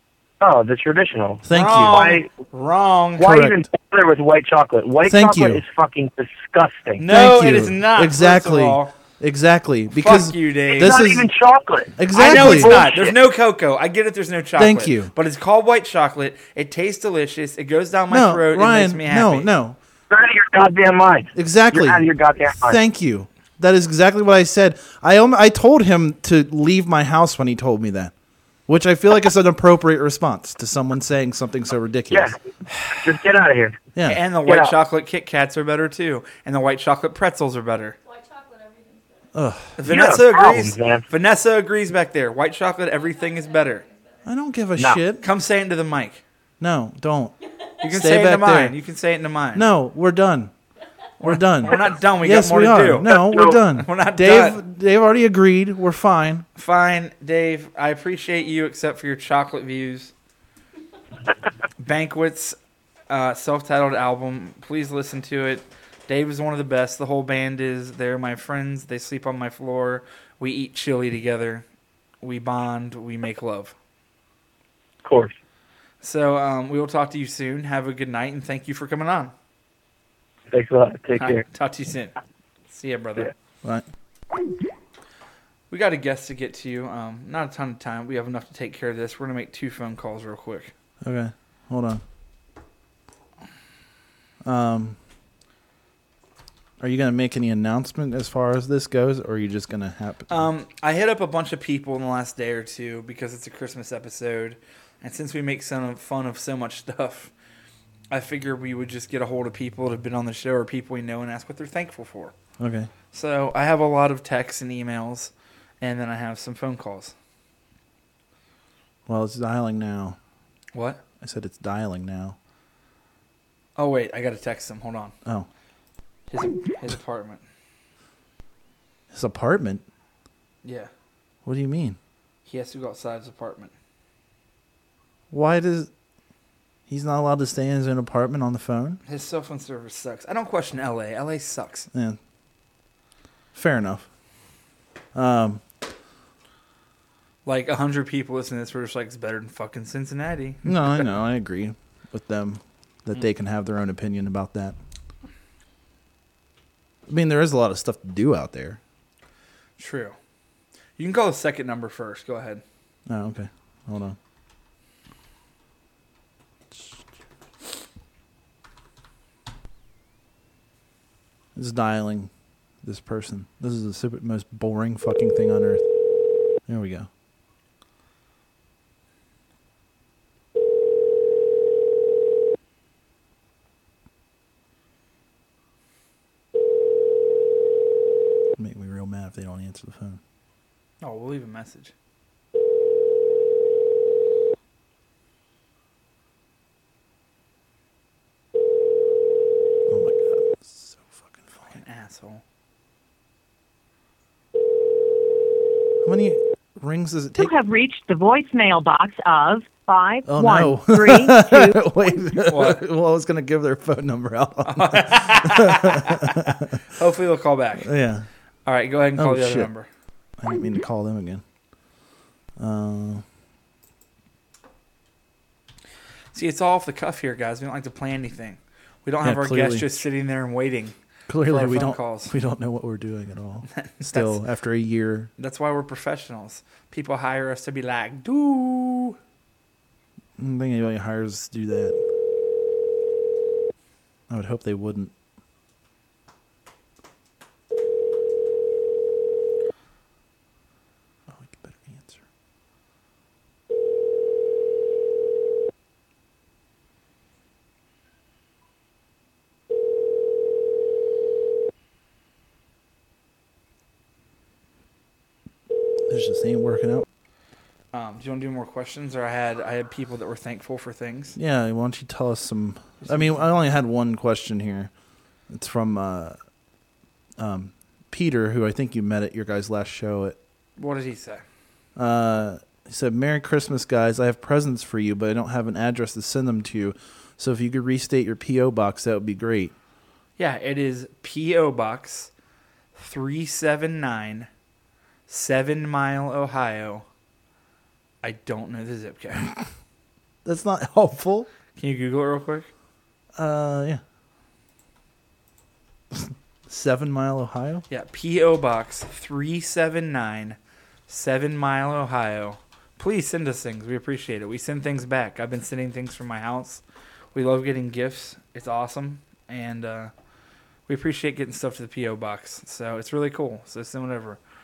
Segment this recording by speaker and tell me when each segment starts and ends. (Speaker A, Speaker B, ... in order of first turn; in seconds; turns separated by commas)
Speaker A: 0.4-2.3, Speaker B: 1.4-2.0, Speaker C: 1.5-3.3, Speaker A: 3.2-7.0, Speaker B: 3.2-3.6, Speaker B: 5.0-5.6, Speaker C: 7.0-8.9, Speaker B: 7.0-11.3, Speaker C: 9.9-11.0, Speaker A: 10.7-13.2, Speaker B: 12.0-12.7, Speaker C: 12.1-19.5, Speaker B: 14.6-15.1, Speaker B: 18.1-19.8, Speaker A: 20.1-22.8, Speaker B: 21.3-22.0, Speaker B: 22.6-28.1, Speaker B: 28.7-32.3, Speaker A: 32.1-32.4, Speaker A: 32.9-33.8, Speaker B: 33.9-34.2, Speaker C: 34.0-38.0, Speaker A: 34.5-34.7, Speaker D: 38.0-39.3, Speaker B: 39.3-39.8, Speaker C: 39.8-43.9, Speaker A: 39.9-41.0, Speaker D: 42.8-44.3, Speaker B: 44.2-45.2, Speaker C: 45.2-46.2, Speaker B: 46.6-48.8, Speaker D: 47.4-47.9, Speaker C: 47.8-49.6, Speaker B: 49.5-50.5, Speaker C: 51.2-54.6, Speaker B: 51.2-56.5, Speaker A: 53.3-53.6, Speaker C: 56.5-60.1, Speaker C: 61.8-62.6, Speaker C: 63.1-71.6, Speaker C: 72.2-73.7, Speaker A: 75.0-75.3, Speaker C: 76.0-79.3, Speaker A: 80.5-81.4, Speaker C: 81.2-82.1, Speaker C: 82.7-83.3, Speaker C: 85.7-90.7, Speaker B: 91.0-92.0, Speaker B: 94.4-95.0, Speaker B: 96.8-100.5, Speaker C: 100.3-107.3, Speaker C: 108.1-112.3, Speaker B: 112.6-112.9, Speaker C: 113.1-117.1, Speaker B: 119.1-120.2, Speaker C: 120.7-121.0, Speaker B: 121.2-122.3, Speaker C: 123.8-125.1, Speaker C: 126.3-127.4, Speaker B: 129.1-129.8, Speaker C: 130.6-130.9, Speaker B: 131.4-132.0, Speaker C: 132.4-133.7, Speaker B: 135.3-135.9, Speaker B: 136.9-139.0, Speaker C: 139.0-141.9, Speaker B: 141.9-142.2, Speaker B: 143.5-144.1, Speaker B: 145.1-145.6, Speaker C: 147.4-151.0, Speaker B: 150.6-154.8, Speaker B: 157.1-158.8, Speaker C: 159.8-160.2, Speaker C: 161.0-162.6, Speaker B: 163.1-164.2, Speaker B: 166.7-167.0, Speaker B: 171.5-172.3, Speaker B: 172.8-175.8, Speaker B: 176.7-177.1, Speaker B: 188.6-190.2, Speaker C: 191.0-191.9, Speaker B: 199.9-201.7, Speaker C: 201.6-202.4, Speaker B: 206.0-207.5, Speaker E: 207.4-211.8, Speaker B: 210.2-216.7, Speaker C: 212.5-212.8, Speaker C: 214.7-217.9, Speaker B: 217.8-218.2, Speaker C: 218.7-219.9, Speaker B: 219.1-219.7, Speaker B: 220.4-221.4, Speaker B: 222.6-223.2, Speaker C: 226.3-232.3, Speaker B: 229.2-230.0, Speaker B: 231.3-235.3, Speaker C: 233.7-234.4, Speaker C: 235.4-239.2, Speaker B: 240.4-242.0, Speaker B: 244.3-245.1, Speaker B: 251.3-252.2, Speaker B: 266.1-267.1, Speaker C: 267.9-271.4, Speaker B: 271.4-274.9, Speaker C: 273.0-273.4, Speaker B: 275.5-276.4, Speaker B: 277.4-280.4, Speaker C: 280.8-281.4, Speaker B: 281.9-289.7, Speaker C: 290.4-292.3, Speaker C: 292.9-294.5, Speaker C: 295.3-297.0, Speaker C: 298.2-299.5, Speaker B: 300.4-301.5, Speaker C: 301.8-302.7, Speaker B: 303.4-304.0, Speaker B: 306.1-307.8, Speaker C: 307.9-310.6, Speaker C: 311.1-316.8, Speaker C: 317.3-320.1, Speaker C: 320.9-324.4